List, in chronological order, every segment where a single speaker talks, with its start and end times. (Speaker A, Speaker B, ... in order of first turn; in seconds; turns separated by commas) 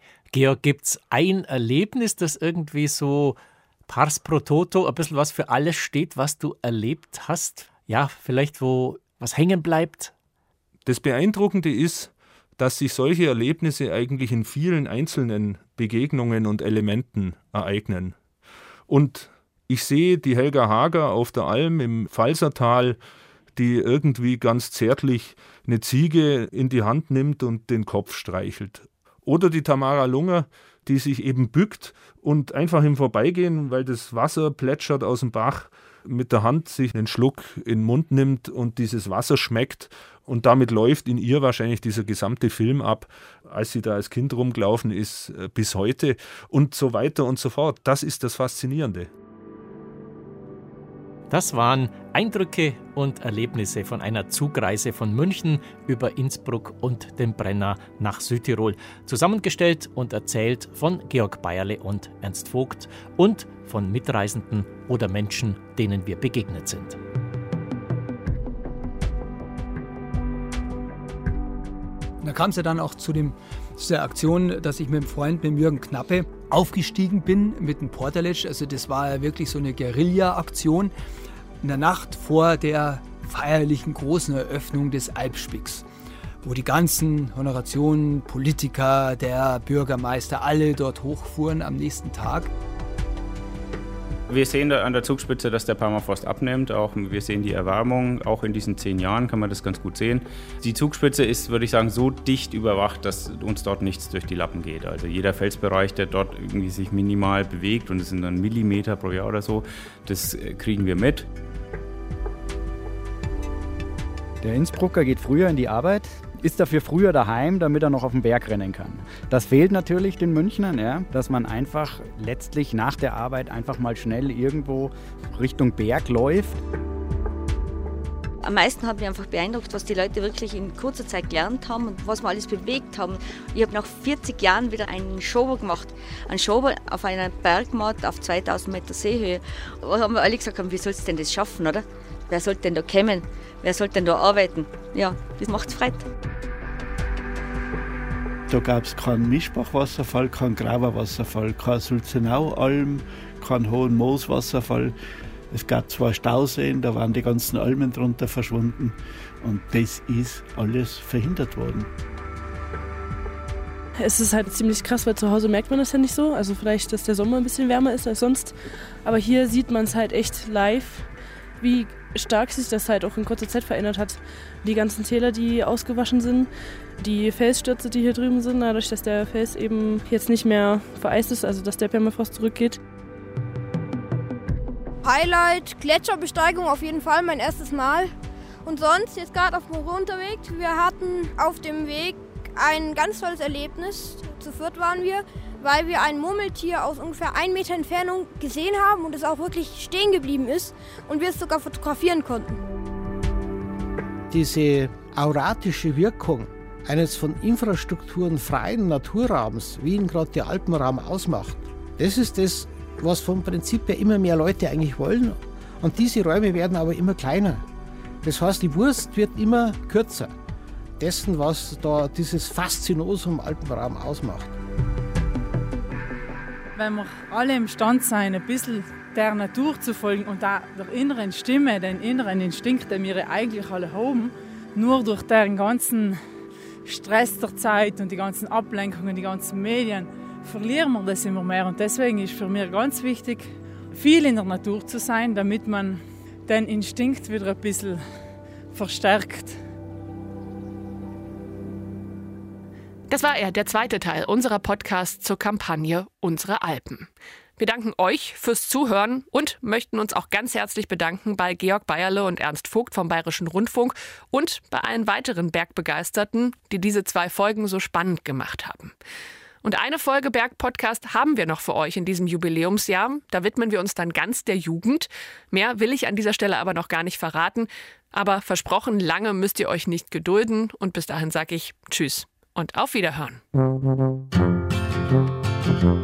Speaker A: 0.3-10.1, Speaker B: 10.9-18.1, Speaker B: 18.9-23.0, Speaker B: 23.6-49.1, Speaker A: 51.3-67.0, Speaker C: 72.2-80.9, Speaker C: 81.6-85.8, Speaker C: 86.4-92.5, Speaker D: 94.3-111.3, Speaker E: 114.4-126.6, Speaker F: 128.4-146.0, Speaker G: 148.5-154.9, Speaker G: 155.5-161.9, Speaker H: 164.0-182.8, Speaker I: 185.0-188.1, Speaker I: 188.6-202.6, Speaker J: 204.3-217.6, Speaker J: 218.2-220.3, Speaker J: 221.0-224.5, Speaker K: 226.8-236.2, Speaker K: 236.8-248.0, Speaker K: 248.7-249.6, Speaker L: 253.1-268.9, Speaker L: 269.6-283.4